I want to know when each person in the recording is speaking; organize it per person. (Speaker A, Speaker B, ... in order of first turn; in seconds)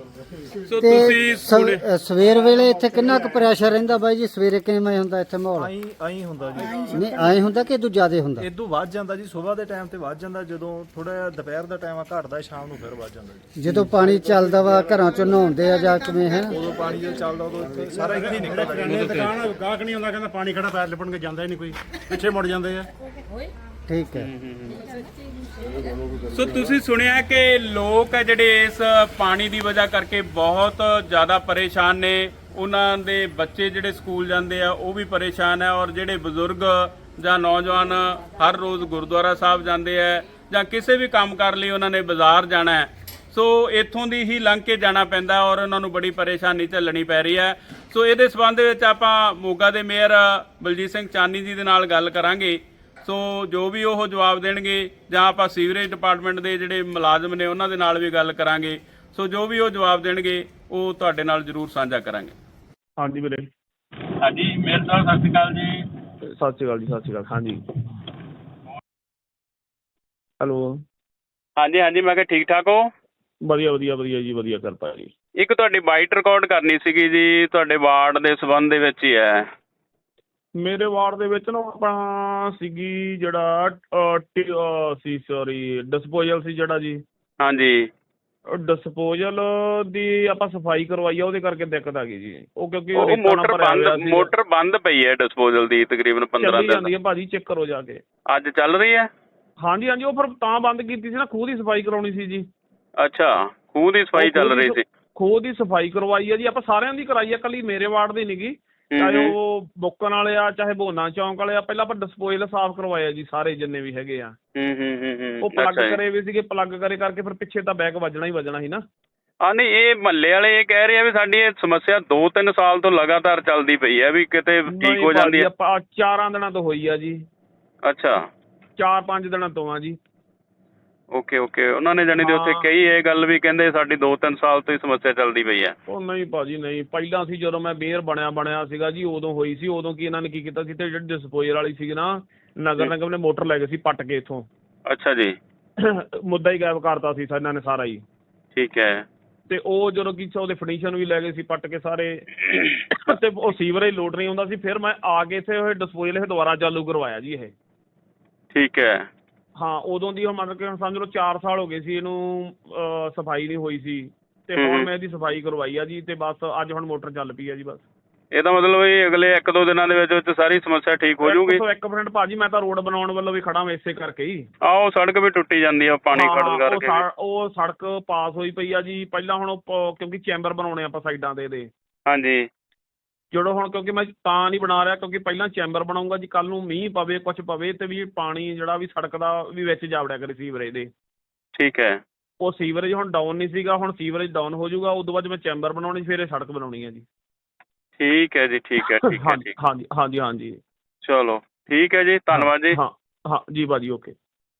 Speaker A: 0.7-1.8, 18.8-19.4, 24.1-24.8, 26.3-62.3, 64.2-65.8, 71.6-72.9, 75.4-79.5, 87.4-87.9, 92.9-96.9, 98.3-99.1, 103.0-104.8, 108.9-109.3, 114.5-116.0, 119.4-125.5, 127.8-128.2, 131.1-135.7, 144.9-145.3, 148.6-149.0, 158.5-159.1, 164.6-164.9, 168.3-171.6, 174.6-177.0, 182.1-182.5, 191.5-192.0, 198.0-199.5, 201.0-202.8
Speaker B: 0.7-5.7, 6.8-8.5, 13.6-16.6, 23.9-24.3
Speaker C: 5.6-7.0, 8.4-13.4, 16.5-19.1
Speaker D: 18.0-22.9
Speaker E: 63.0-63.5, 66.4-67.6, 70.4-70.7, 73.5-75.1, 80.6-87.0, 88.5-94.3, 96.4-98.0, 99.6-102.4, 104.1-114.3, 115.4-118.8, 124.7-127.2, 128.8-130.0, 132.2-132.7, 135.9-144.4, 145.8-148.0, 149.5-152.2, 152.9-157.5, 159.6-167.8, 171.2-174.4, 176.1-181.7, 183.3-190.9, 192.4-197.0, 198.8-200.6, 202.3-204.1